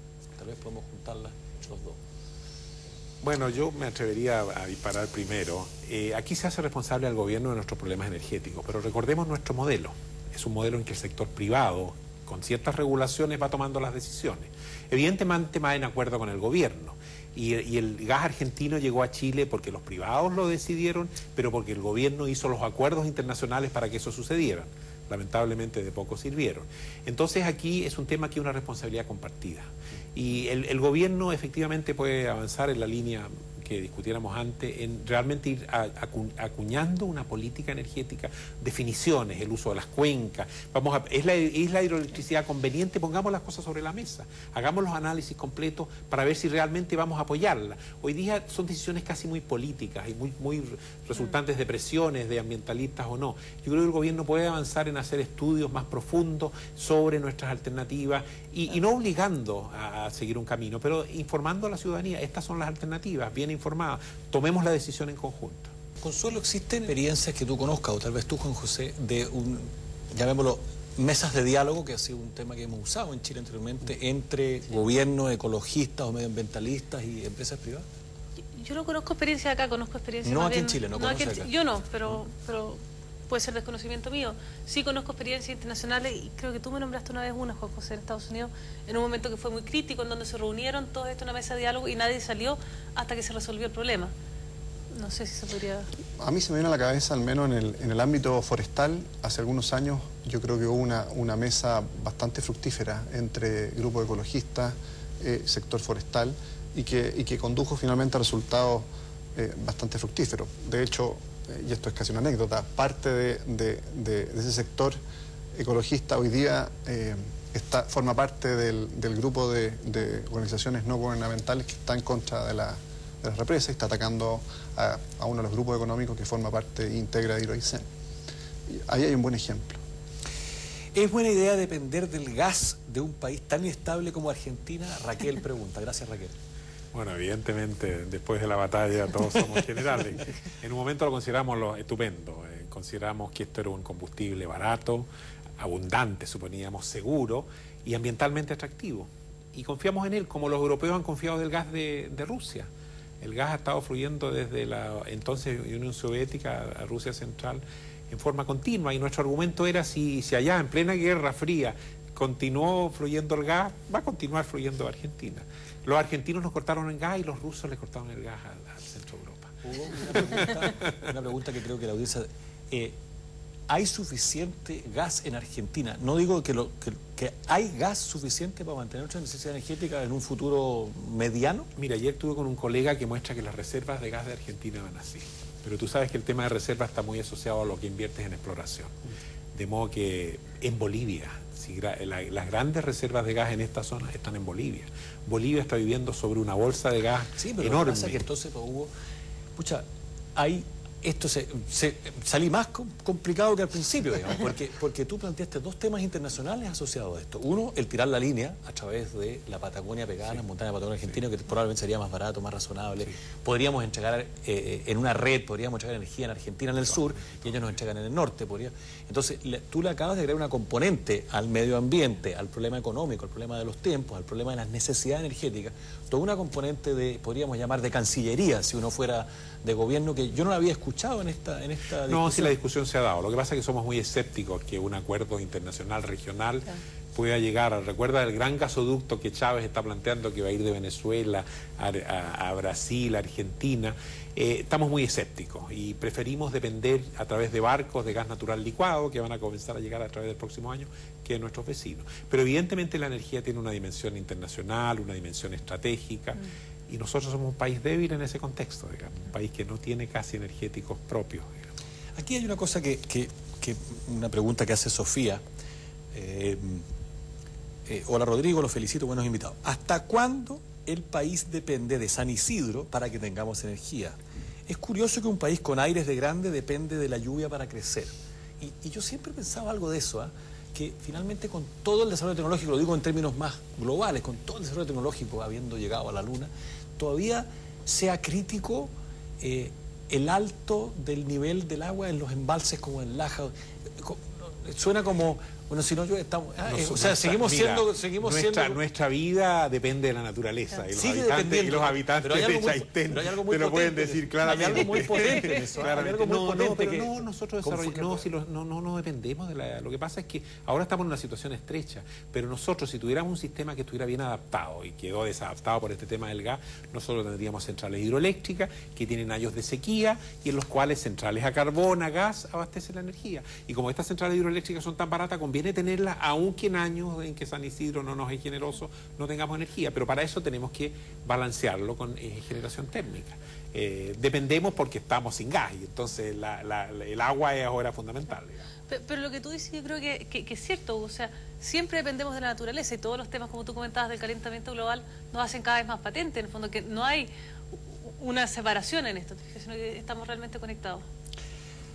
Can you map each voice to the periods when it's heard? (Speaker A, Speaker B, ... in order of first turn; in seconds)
Speaker A: 0.4-2.0, 66.0-77.8, 80.2-81.5, 130.9-136.3, 169.6-172.9, 173.7-181.7, 197.4-198.9, 199.6-232.6, 262.1-265.4, 266.1-266.8, 267.9-274.2, 274.7-298.8, 300.9-308.3
Speaker B: 3.2-65.7, 136.9-145.1, 145.6-152.7, 153.2-169.6, 181.8-189.0, 189.5-198.2, 232.1-261.5, 296.6-338.7
Speaker C: 78.5-94.1, 94.9-95.9, 305.2-305.5, 338.9-347.3, 347.9-351.0
Speaker D: 96.2-115.0, 115.5-127.8, 128.7-129.8